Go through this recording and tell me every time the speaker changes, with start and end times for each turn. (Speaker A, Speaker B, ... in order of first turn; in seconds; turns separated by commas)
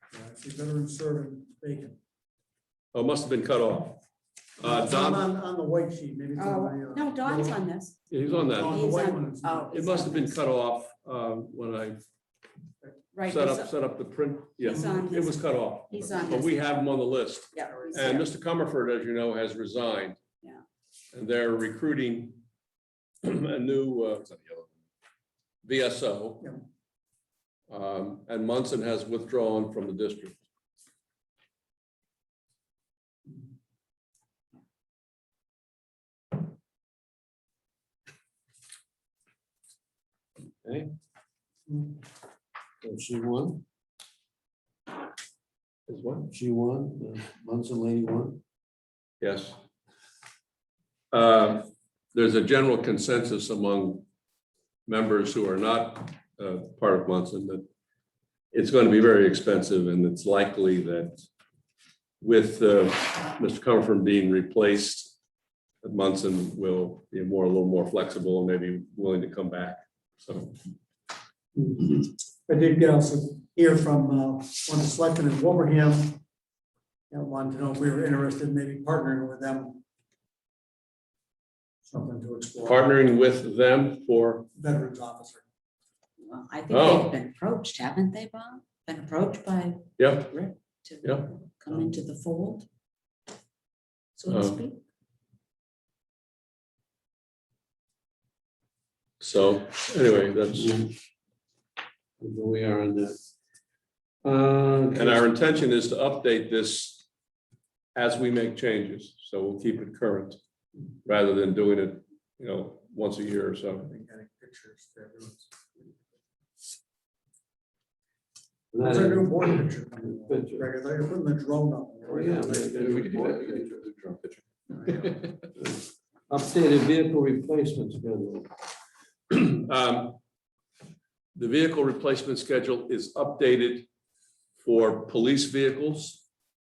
Speaker A: 0.1-2.0, Speaker B: 2.9-4.0, Speaker B: 4.6-5.3, Speaker A: 4.6-7.6, Speaker C: 6.3-8.0, Speaker B: 8.1-8.8, Speaker A: 8.2-9.8, Speaker C: 8.6-10.4, Speaker B: 9.7-12.0, Speaker C: 13.1-13.7, Speaker B: 13.3-20.2, Speaker C: 14.6-16.7, Speaker C: 17.5-18.3, Speaker A: 17.6-18.3, Speaker B: 21.1-22.4, Speaker B: 23.2-24.2, Speaker D: 24.2-24.7, Speaker B: 25.6-26.5, Speaker B: 27.7-30.4, Speaker E: 40.6-40.9, Speaker A: 41.7-42.0, Speaker E: 42.8-43.6, Speaker B: 45.9-46.3, Speaker E: 46.3-48.4, Speaker B: 49.2-49.5, Speaker B: 51.1-54.0, Speaker B: 54.9-57.6, Speaker B: 58.5-61.2, Speaker B: 62.2-65.2, Speaker B: 65.8-70.5, Speaker A: 71.5-76.2, Speaker A: 77.1-79.8, Speaker A: 81.8-82.9, Speaker B: 82.6-84.5, Speaker A: 84.5-85.4, Speaker C: 86.2-92.7, Speaker B: 86.7-87.1, Speaker B: 90.0-90.4, Speaker B: 91.0-91.3, Speaker C: 94.2-94.8, Speaker B: 94.3-94.6, Speaker B: 99.2-100.8, Speaker E: 100.5-100.9, Speaker E: 102.2-103.2, Speaker E: 104.2-105.2, Speaker B: 104.9-107.0, Speaker B: 107.9-110.4, Speaker B: 111.0-113.8, Speaker A: 113.8-115.9, Speaker E: 118.7-120.7, Speaker A: 118.8-122.9, Speaker E: 122.0-123.8, Speaker D: 122.8-125.3, Speaker E: 125.6-128.5, Speaker B: 129.3-130.2, Speaker B: 131.3-133.9, Speaker B: 134.6-136.2